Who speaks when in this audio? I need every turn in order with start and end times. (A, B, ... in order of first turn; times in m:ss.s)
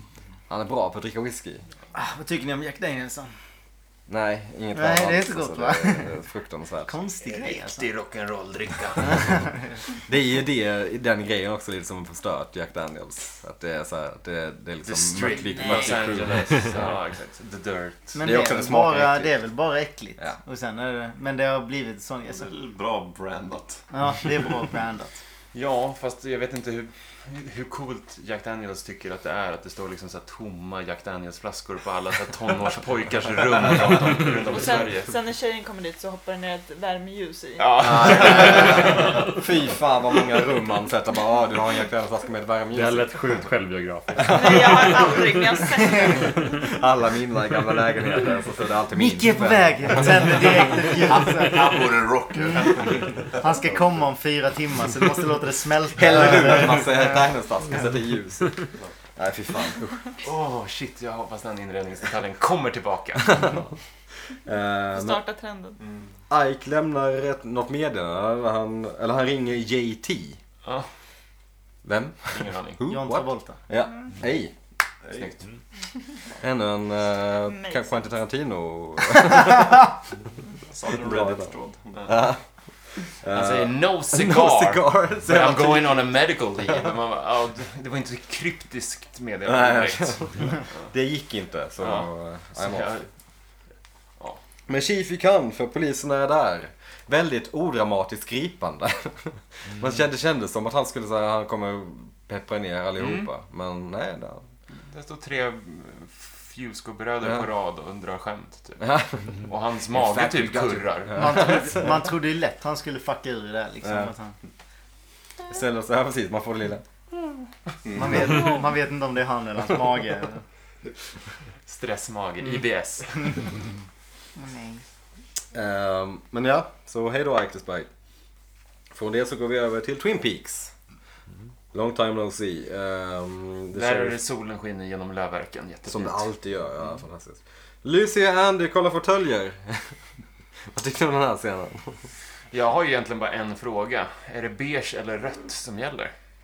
0:00.5-0:01.6 A
0:01.9-0:03.3 B
0:04.1-0:07.0 A
0:04.7-0:06.2 B
0:06.9-0:07.9 B
0:07.2-0:09.4 C
0:09.0-0:09.6 B
0:10.1-0:16.9 A
0:14.8-0:18.2 C
0:18.2-0:22.5 B
0:18.2-0:19.3 A
0:22.3-0:23.8 D
0:23.9-0:25.2 B
0:25.5-0:35.1 C
0:34.5-0:38.5 E
0:37.6-0:39.2 C
0:37.8-0:43.4 A
0:42.7-0:45.2 F
0:44.2-0:45.1 A
0:44.2-0:46.4 E
0:46.6-0:50.4 A
0:48.9-0:51.8 B
0:51.0-0:53.4 D
0:52.4-0:57.0 B
0:56.0-0:58.6 A
0:59.2-1:00.0 A
1:00.2-1:03.5 C
1:03.3-1:03.6 A
1:04.4-1:05.2 A
1:04.9-1:05.8 E
1:06.3-1:10.4 A
1:11.8-1:14.5 A
1:12.3-1:12.8 C
1:12.9-1:13.6 B
1:15.0-1:15.3 D
1:15.2-1:15.4 C
1:16.4-1:19.9 A
1:17.4-1:18.1 E
1:20.7-1:22.1 D
1:20.9-1:21.5 A
1:22.1-1:22.4 A
1:23.1-1:26.1 A
1:23.3-1:30.9 C
1:29.4-1:32.9 A
1:31.8-1:33.1 C
1:34.7-1:44.4 A
1:43.0-1:43.3 C
1:44.8-1:51.7 C
1:48.8-1:51.9 A
1:51.2-1:54.4 B
1:53.8-1:54.1 A
1:55.5-1:56.9 A
1:57.9-1:58.2 D
1:57.9-2:00.4 B
2:01.7-2:03.5 C
2:04.4-2:04.8 B
2:05.5-2:07.9 A
2:08.9-2:10.7 A
2:11.7-2:14.2 A
2:13.7-2:16.3 C
2:15.9-2:20.0 A
2:20.7-2:22.0 A
2:22.5-2:26.1 C